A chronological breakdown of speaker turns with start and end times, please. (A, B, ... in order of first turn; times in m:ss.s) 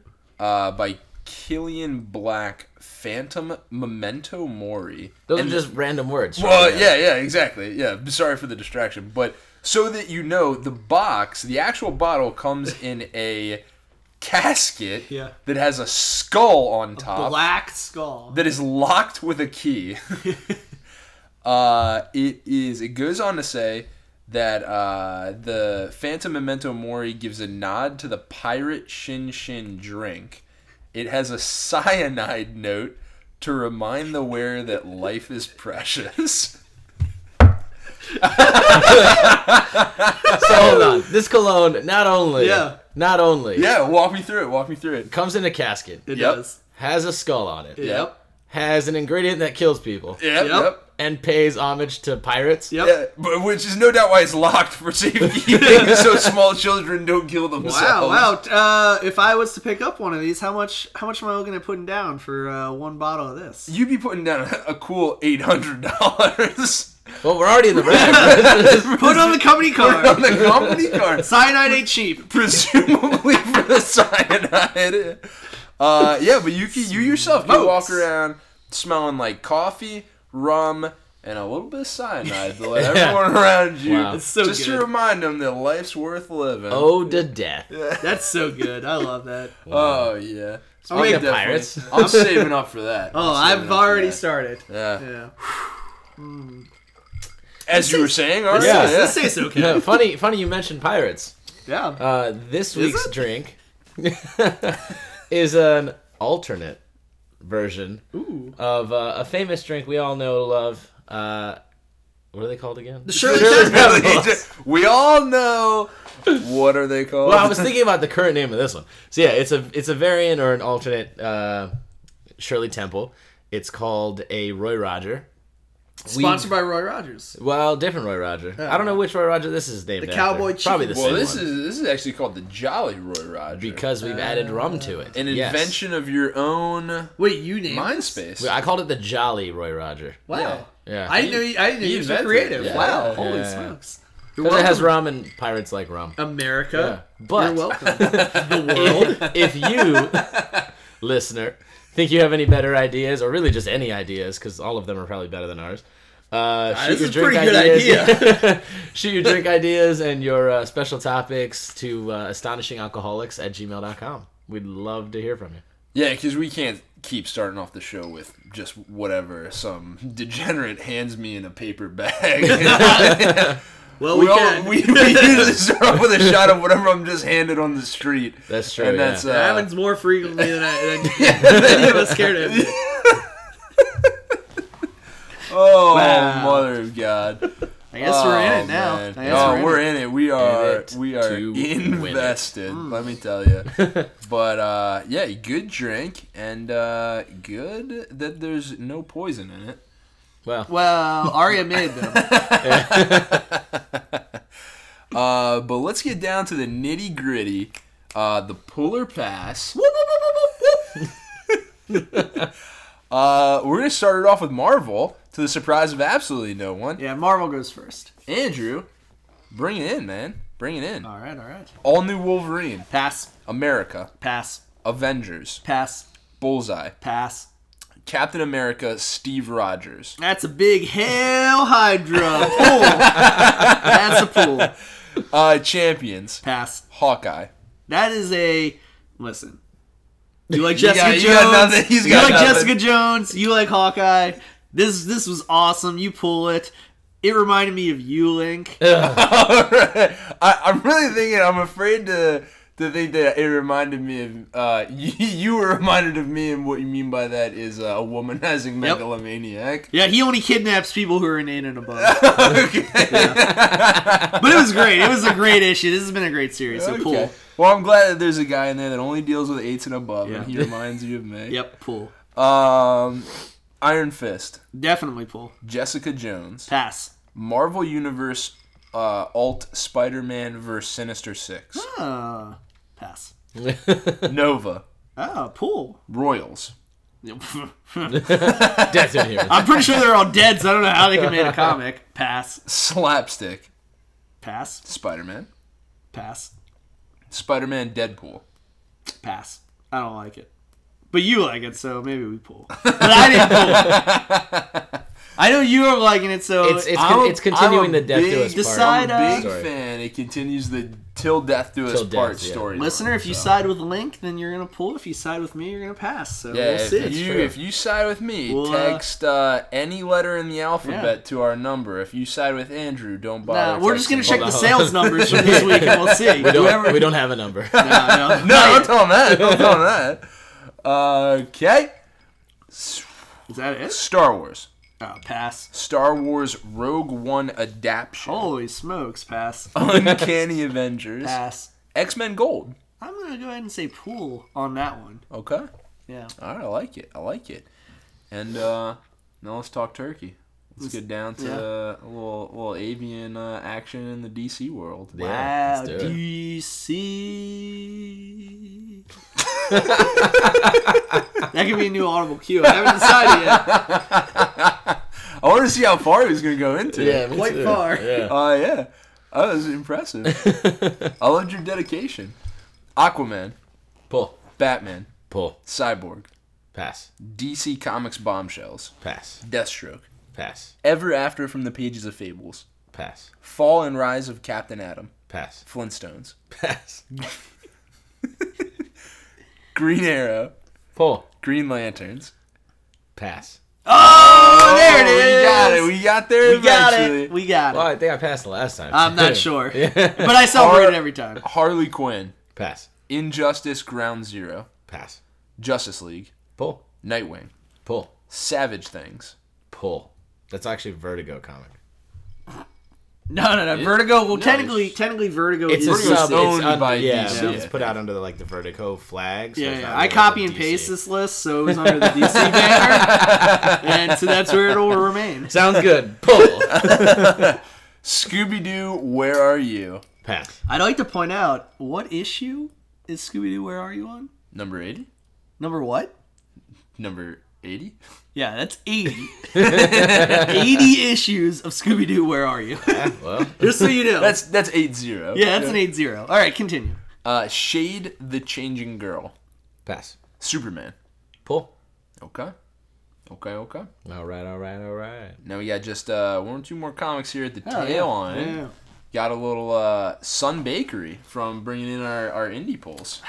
0:00.4-0:05.7 A
0:05.3-0:07.0 B
0:06.4-0:13.6 A
0:14.2-0:17.5 A
0:15.1-0:15.3 C
0:17.0-0:18.4 C
0:18.3-0:20.1 A
0:21.4-0:36.6 A
0:38.2-0:40.9 A
0:38.5-0:39.1 C
0:38.7-0:39.3 B
0:40.2-0:40.9 C
0:40.3-0:43.7 B
0:42.4-0:42.8 C
0:43.5-0:45.1 A
0:45.1-0:46.1 B
0:46.1-0:46.6 C
0:46.1-0:46.4 A
0:46.7-0:47.9 B
0:47.8-0:48.2 C
0:47.8-0:48.1 A
0:48.5-0:50.2 B
0:50.2-0:50.8 A
0:50.4-0:50.8 C
0:50.9-0:52.7 B
0:52.8-0:58.3 A
0:57.6-1:03.7 C
1:03.7-1:07.2 A
1:07.2-1:09.0 B
1:07.7-1:11.4 A
1:07.8-1:10.5 C
1:10.3-1:11.0 B
1:11.2-1:12.4 C
1:12.2-1:27.1 A
1:17.3-1:18.0 C
1:22.7-1:24.2 B
1:24.1-1:24.9 C
1:26.7-1:27.7 B
1:27.7-1:28.2 A
1:28.0-1:29.6 C
1:29.6-1:35.0 A
1:29.7-1:30.1 B
1:30.9-1:32.5 C
1:30.9-1:32.4 B
1:33.1-1:35.3 C
1:36.2-1:36.7 C
1:37.7-1:39.4 A
1:37.7-1:40.0 C
1:38.5-1:41.3 B
1:41.6-1:42.0 C
1:42.0-1:46.8 B
1:42.7-1:43.2 C
1:47.4-1:48.0 B
1:48.1-1:48.6 C
1:48.6-1:51.6 B
1:52.3-1:54.4 B
1:53.0-1:54.2 C
1:53.1-1:57.7 A
1:57.2-2:01.7 B
2:02.4-2:05.3 B
2:06.0-2:07.4 C
2:06.1-2:06.5 B
2:07.3-2:11.5 B
2:08.6-2:09.0 C
2:10.0-2:11.3 C
2:10.9-2:13.8 A
2:13.5-2:15.7 B
2:14.0-2:15.1 C
2:15.1-2:18.5 A
2:17.2-2:18.2 C
2:18.4-2:21.3 B
2:20.3-2:25.0 C
2:20.3-2:23.2 A
2:22.6-2:23.8 B
2:24.4-2:26.2 B
2:26.2-2:29.6 C
2:26.7-2:45.6 B
2:30.2-2:30.6 A
2:36.7-2:38.5 C
2:45.9-2:59.7 A
2:52.4-2:53.5 C
2:54.0-2:55.6 C
2:58.5-2:59.3 B
2:59.2-3:02.8 C
3:01.1-3:02.1 B
3:01.1-3:04.1 A
3:05.4-3:19.8 A
3:05.9-3:06.7 C
3:07.9-3:09.9 C
3:09.2-3:09.8 B
3:10.3-3:12.4 B
3:12.7-3:13.1 C
3:13.7-3:14.1 B
3:20.4-3:21.3 B
3:20.7-3:22.4 C
3:22.0-3:23.4 A
3:22.5-3:23.6 B
3:25.1-3:29.8 A
3:29.7-3:31.0 C
3:33.1-3:37.0 A
3:37.0-3:38.1 C
3:38.3-3:38.9 A
3:39.5-3:41.1 A
3:41.0-3:41.7 C
3:41.8-3:42.9 A
3:42.9-3:43.3 C
3:43.4-3:44.1 A
3:44.2-3:44.6 C
3:44.8-3:45.6 A
3:45.6-3:46.1 C
3:46.4-3:47.0 A
3:47.0-3:47.5 C
3:48.0-3:50.2 A
3:50.2-3:54.7 C
3:52.3-3:57.5 A
3:56.4-3:56.8 C
3:57.9-3:59.6 C
4:00.5-4:08.8 C
4:00.7-4:02.8 A
4:02.1-4:02.6 B
4:08.8-4:09.2 B
4:08.8-4:19.9 A
4:19.9-4:22.4 C
4:22.0-4:25.2 A
4:23.1-4:27.3 C
4:26.7-4:31.6 A
4:30.2-4:30.7 C
4:31.5-4:32.1 C
4:32.3-4:33.3 A
4:33.8-4:34.6 A
4:34.7-4:35.5 C
4:35.6-4:36.7 A
4:36.7-4:37.1 C
4:37.3-4:41.9 A
4:41.7-4:43.3 C
4:43.6-4:44.3 B
4:44.2-4:44.8 A
4:45.2-4:46.0 C
4:46.1-4:46.7 A
4:47.2-4:52.6 C
4:48.1-4:50.1 B
4:48.4-4:49.0 A
4:51.2-4:51.5 B
4:52.6-4:53.7 A
4:54.4-4:54.8 C
4:54.8-4:55.5 A
4:56.1-4:56.5 C
4:57.3-4:58.4 A
4:59.2-5:00.5 C
5:01.1-5:04.0 C
5:02.8-5:04.9 A
5:05.4-5:07.0 C
5:06.6-5:09.7 B
5:06.9-5:13.5 A
5:08.5-5:09.5 C
5:11.9-5:12.7 B
5:12.7-5:17.2 C
5:16.5-5:26.6 A
5:17.0-5:17.5 B
5:18.5-5:19.0 C
5:20.8-5:21.1 C
5:23.4-5:29.0 C
5:24.2-5:28.4 B
5:27.7-5:30.2 A
5:29.2-5:29.8 B
5:30.8-5:31.9 A
5:32.7-5:33.2 A
5:33.5-5:34.0 C
5:33.9-5:34.7 A
5:35.0-5:35.7 C
5:35.7-5:38.5 A
5:38.2-5:39.7 C
5:39.7-5:41.4 A
5:41.2-5:41.7 C
5:41.9-5:42.8 A
5:43.0-5:45.2 C
5:45.3-5:45.7 A
5:46.1-5:46.3 C
5:46.4-5:47.7 A
5:48.3-5:55.2 A
5:50.8-5:51.6 C
5:55.1-5:56.2 B
5:55.2-5:59.0 C
5:59.7-6:00.6 A
5:59.9-6:00.9 B
6:01.5-6:03.8 C
6:03.2-6:10.5 A
6:06.9-6:08.3 B
6:07.2-6:08.2 C
6:10.2-6:11.1 B
6:11.2-6:12.3 A
6:13.0-6:13.6 A
6:14.1-6:14.4 B
6:14.6-6:15.1 A
6:15.3-6:15.6 B
6:15.6-6:16.3 A
6:16.7-6:17.1 B
6:17.2-6:20.1 A
6:19.0-6:19.4 B
6:20.3-6:20.7 B
6:20.8-6:22.6 A
6:22.9-6:23.3 B
6:23.4-6:25.1 A
6:25.3-6:25.6 B
6:25.6-6:26.3 A
6:26.6-6:27.0 B
6:29.7-6:30.5 A
6:31.0-6:31.2 B
6:31.4-6:32.3 A
6:33.2-6:33.6 B
6:33.8-6:37.9 C
6:33.9-6:37.3 A
6:37.7-6:40.5 B
6:38.9-6:41.4 C
6:40.4-6:42.3 A
6:42.5-6:42.9 B
6:43.1-6:44.7 A
6:44.9-6:45.2 B
6:45.6-6:46.3 A
6:46.6-6:46.8 B
6:47.0-6:47.5 A
6:47.8-6:48.1 B
6:48.3-6:49.3 A
6:49.7-6:51.7 B
6:53.3-6:57.6 C
6:53.7-6:55.0 A
6:55.7-7:01.0 B
6:55.7-6:57.9 A
6:59.6-7:05.6 C
7:01.7-7:03.2 B
7:02.3-7:04.8 A
7:05.5-7:07.5 B
7:06.5-7:10.0 A
7:10.2-7:10.6 B
7:10.7-7:14.3 C
7:14.5-7:15.1 A
7:15.6-7:16.1 C
7:17.0-7:18.0 A
7:18.3-7:24.4 C
7:19.5-7:20.6 A
7:19.5-7:20.7 B
7:22.8-7:24.0 B
7:24.2-7:25.8 A
7:25.3-7:27.0 C
7:27.2-7:29.3 A
7:29.8-7:30.2 B
7:30.4-7:30.9 A
7:31.4-7:31.7 B
7:32.2-7:32.5 A
7:33.3-7:33.9 A
7:34.0-7:35.4 B
7:35.4-7:38.6 A
7:37.6-7:38.7 C
7:39.1-7:43.2 A